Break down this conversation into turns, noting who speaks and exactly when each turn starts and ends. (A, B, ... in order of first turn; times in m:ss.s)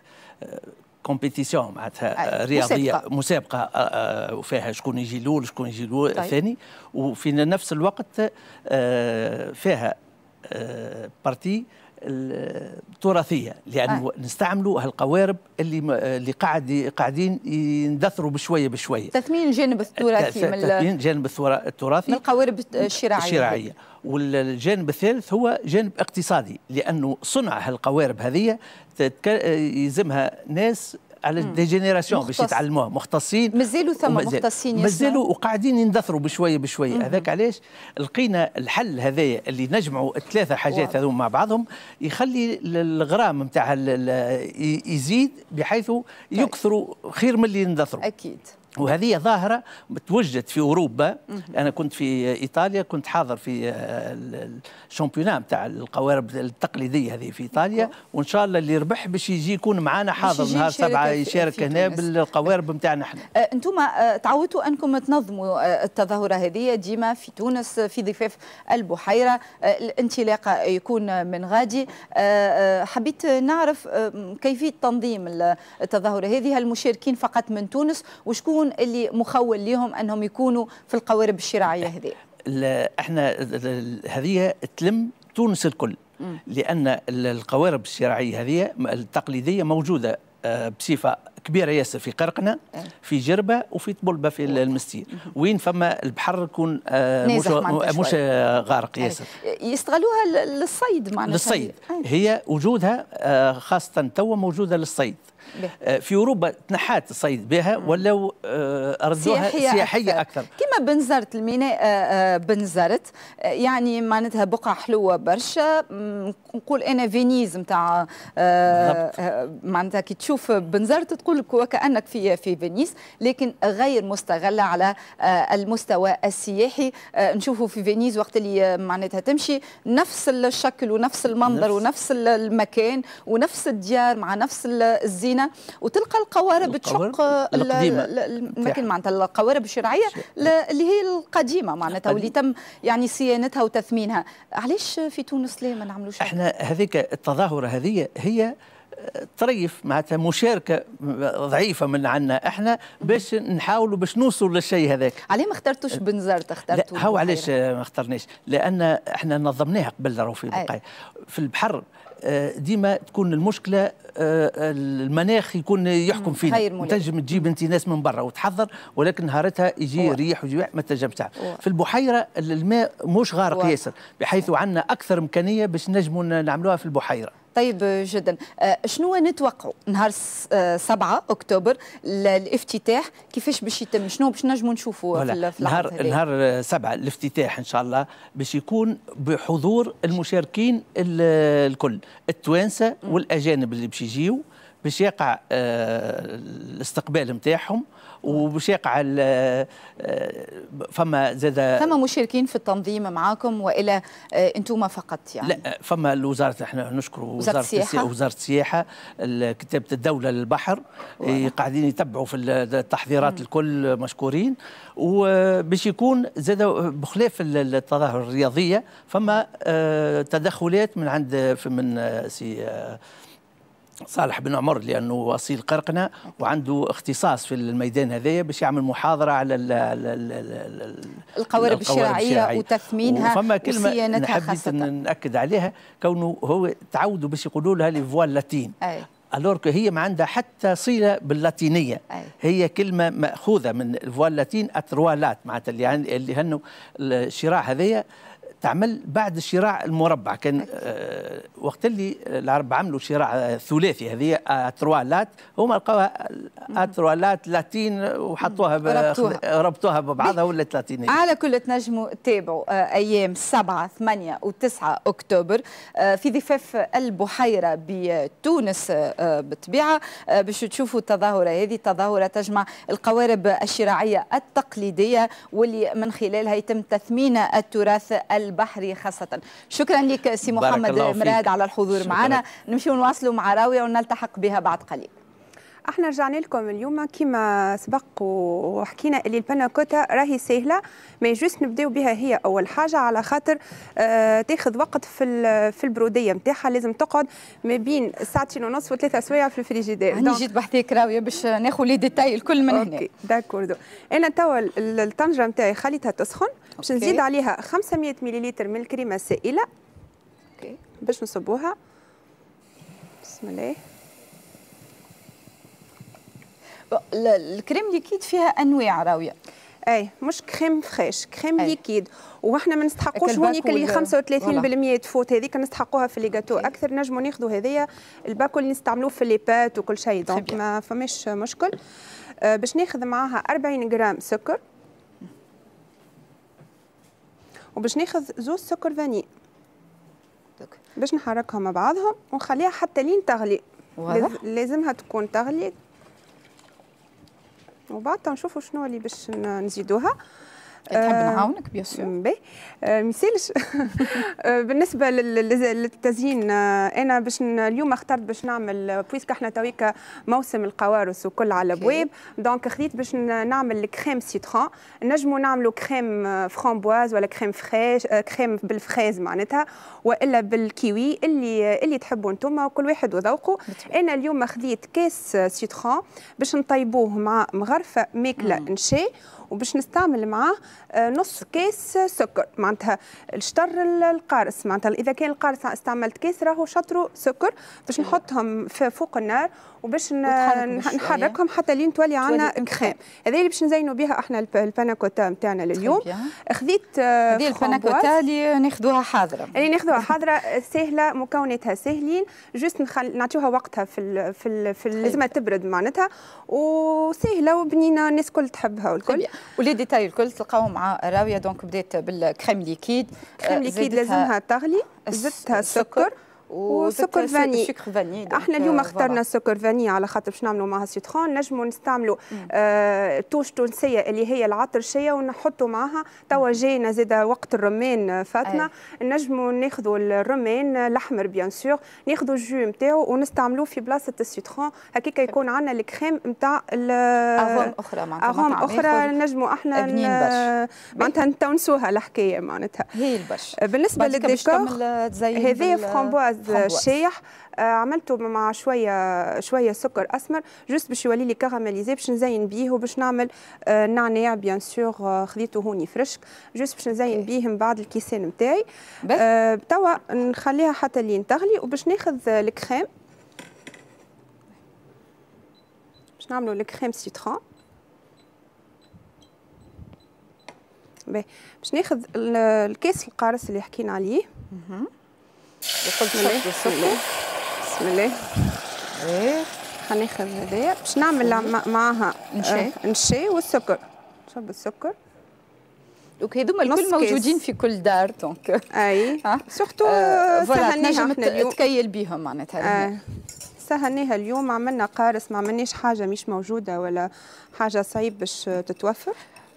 0:00.4-0:19.1 A
0:02.2-0:03.0 B
0:19.1-0:20.8 B
0:20.0-0:22.2 A
0:22.1-0:23.6 B
0:22.8-0:48.0 A
0:31.4-0:32.6 B
0:33.5-0:35.2 B
0:36.9-0:37.3 B
0:40.7-0:41.0 B
0:48.0-0:48.6 B
0:48.8-1:03.2 A
0:51.3-0:51.6 B
0:57.5-0:57.9 B
1:00.2-1:02.1 B
1:03.3-1:22.2 B
1:22.5-1:39.3 A
1:34.5-1:35.3 B
1:37.2-1:38.2 B
1:39.0-1:42.1 B
1:41.2-1:45.2 A
1:45.8-1:50.5 A
1:49.2-2:26.4 B
1:58.7-1:59.1 A
2:11.4-2:11.8 A
2:16.6-2:18.9 A
2:20.2-2:20.5 A
2:21.9-2:22.3 A
2:26.2-2:35.2 A
2:35.3-2:37.5 B
2:36.7-2:57.3 A
2:46.1-2:47.5 B
2:53.5-2:53.8 B
2:57.5-3:06.2 B
3:05.1-3:21.9 A
3:21.8-3:25.6 B
3:25.4-3:43.0 A
3:27.4-3:28.1 B
3:31.2-3:31.5 B
3:44.1-3:58.8 A
3:51.4-3:54.9 B
3:58.8-3:59.1 B
3:59.3-4:08.0 A
4:08.6-4:21.2 A
4:18.4-4:19.4 B
4:21.1-4:45.1 B
4:40.4-4:42.4 A
4:45.9-5:00.4 C
5:00.1-5:03.1 B
5:02.7-5:09.7 C
5:06.8-5:07.2 B
5:11.0-5:11.8 C
5:13.2-5:13.8 C
5:16.9-5:19.3 B
5:19.9-5:31.7 C
5:23.1-5:24.7 B
5:30.3-5:30.6 B
5:32.4-5:34.6 C
5:37.8-5:39.2 C
5:41.0-5:45.7 C
5:44.0-5:44.4 B
5:47.9-5:50.1 C
5:50.9-5:52.1 B
5:50.9-6:38.1 C
6:01.6-6:02.1 B
6:13.7-6:13.9 B
6:18.4-6:18.7 B
6:30.2-6:31.4 B
6:32.2-6:33.0 B
6:35.8-6:36.3 B
6:37.3-6:40.1 B
6:39.5-6:49.3 C
6:45.0-6:45.3 B
6:49.0-6:54.3 B
6:53.4-6:56.1 C
6:55.0-6:59.2 B
6:56.7-6:57.7 C
6:58.3-7:17.7 C
7:17.4-7:19.1 B
7:18.2-7:22.9 C
7:19.7-7:21.1 B
7:22.9-7:26.8 B
7:23.6-7:24.8 C
7:25.3-7:42.9 C
7:46.2-7:47.4 C
7:51.1-7:54.3 C
7:54.5-7:54.9 B
7:55.8-7:57.0 B
7:56.1-7:57.0 C
7:57.6-7:58.6 C
7:58.9-7:59.6 B
7:59.8-8:04.9 C
8:01.2-8:01.5 B
8:02.3-8:02.7 B
8:06.2-8:12.9 B
8:06.6-8:07.4 C
8:08.7-8:11.6 C
8:12.6-8:13.0 C
8:13.6-8:19.2 C